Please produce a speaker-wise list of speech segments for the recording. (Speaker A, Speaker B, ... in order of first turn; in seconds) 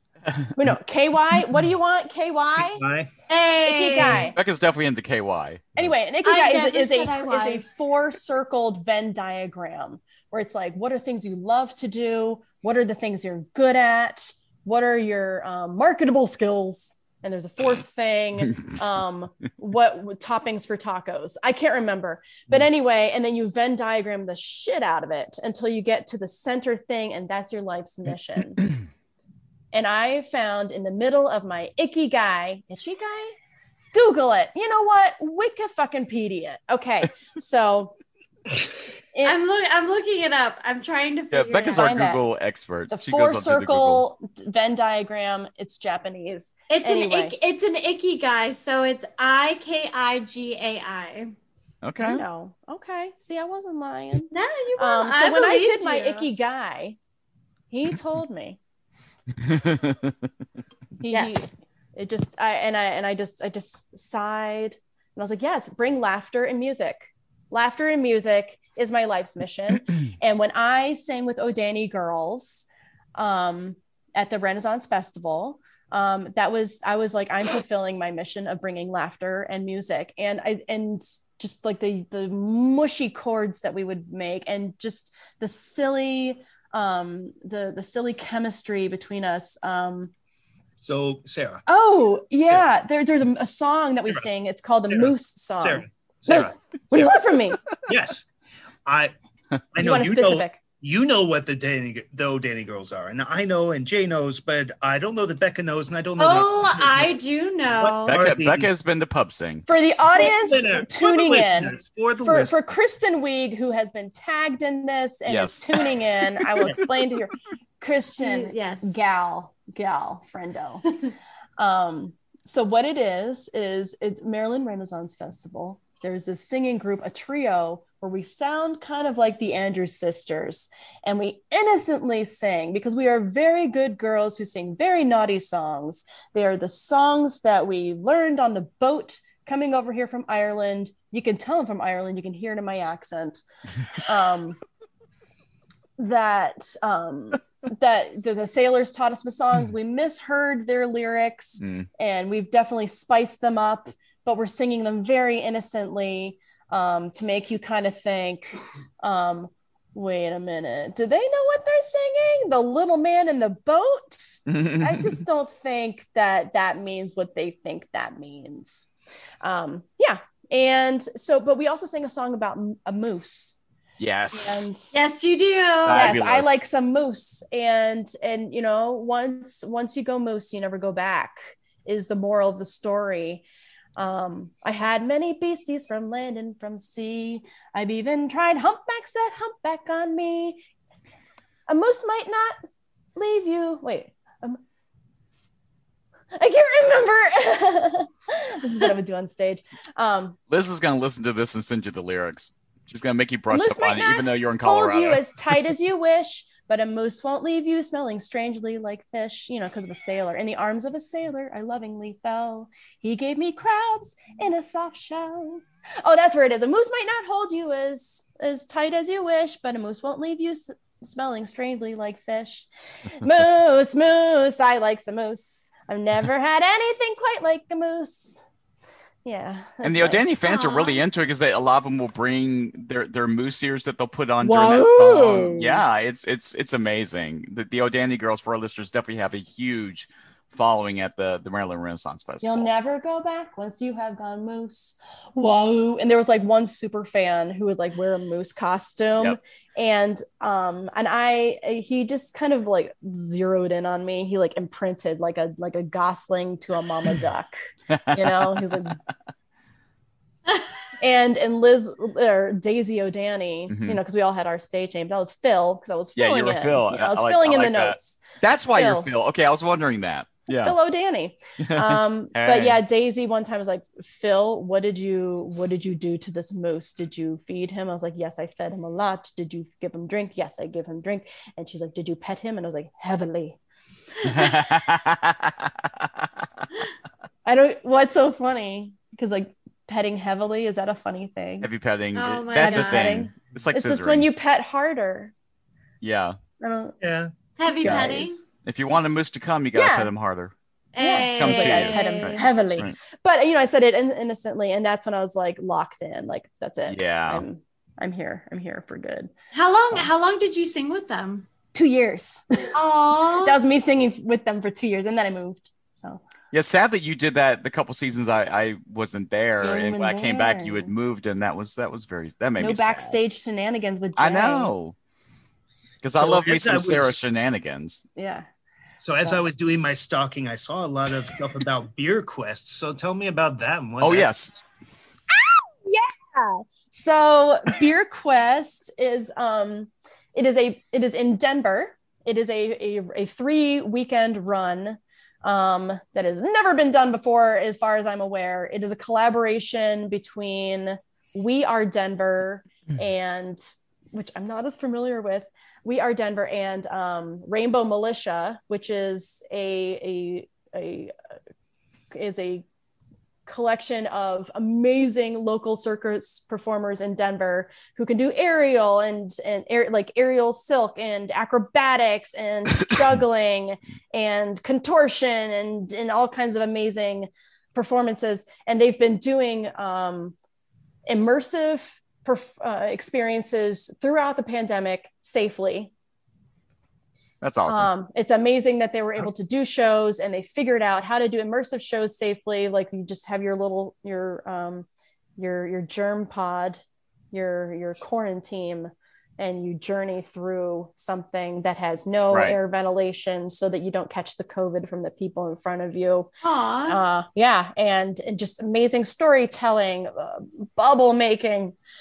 Speaker A: 0.5-2.8, 3.6-4.4, 5.8-28.6, 29.7-33.4, 33.9-38.0, 41.7-42.2, 42.9-47.4, 52.0-57.0, 57.7-58.6, 61.0-90.1, 91.7-97.6, 99.8-100.6, 109.7-120.9, 121.6-143.4, 144.0-144.6, 146.0-168.9, 169.4-173.6, 174.3-174.9, 175.9-183.4, 184.0-190.6, 191.7-192.6, 193.1-194.6, 196.3-200.4, 203.5-228.4, 229.2-230.3, 234.4-235.8, 242.4-257.6, 258.1-259.0, 261.0-268.2, 268.7-269.1, 270.5-283.6, 287.4-291.7, 292.5-295.3, 296.6-297.0, 297.8-298.4, 299.7-300.1, 301.0-309.3, 311.7-312.7, 313.3-316.2, 319.6-320.9, 322.6-324.7, 328.1-328.5, 335.3-353.6, 354.1-361.1, 362.1-362.6, 363.5-380.4, 381.1-385.9, 387.6-396.8, 397.3-406.3, 406.9-411.8
Speaker B: 2.6-3.1, 90.8-91.6, 94.9-97.1, 97.9-98.3, 98.9-99.1, 99.7-107.1, 107.7-108.7, 110.1-112.5, 297.0-297.3, 326.1-327.1, 329.0-334.3
Speaker C: 3.3-4.3, 6.2-7.6, 39.2-41.9, 46.7-51.3, 54.3-56.3, 61.1-61.4, 106.2-108.2, 118.2-119.0, 174.9-176.2, 230.4-231.0, 292.1-293.2, 297.6-298.4, 300.9-302.5, 309.5-311.5, 312.7-313.6, 406.4-407.0
Speaker D: 4.3-5.9, 41.3-44.0, 51.8-52.2, 59.4-60.1, 108.1-109.6, 115.2-116.9, 151.6-151.9, 164.5-165.2, 174.0-174.7, 175.8-176.6, 200.5-205.4, 229.8-242.7, 257.9-258.8, 263.7-264.0, 266.1-270.8, 271.6-272.8, 284.2-286.2, 291.6-294.3, 296.0-296.4, 298.6-300.5, 301.3-303.0, 306.9-307.4, 316.5-323.2, 324.2-324.9, 326.0-328.1, 334.0-334.5, 387.4-387.9, 402.3-402.6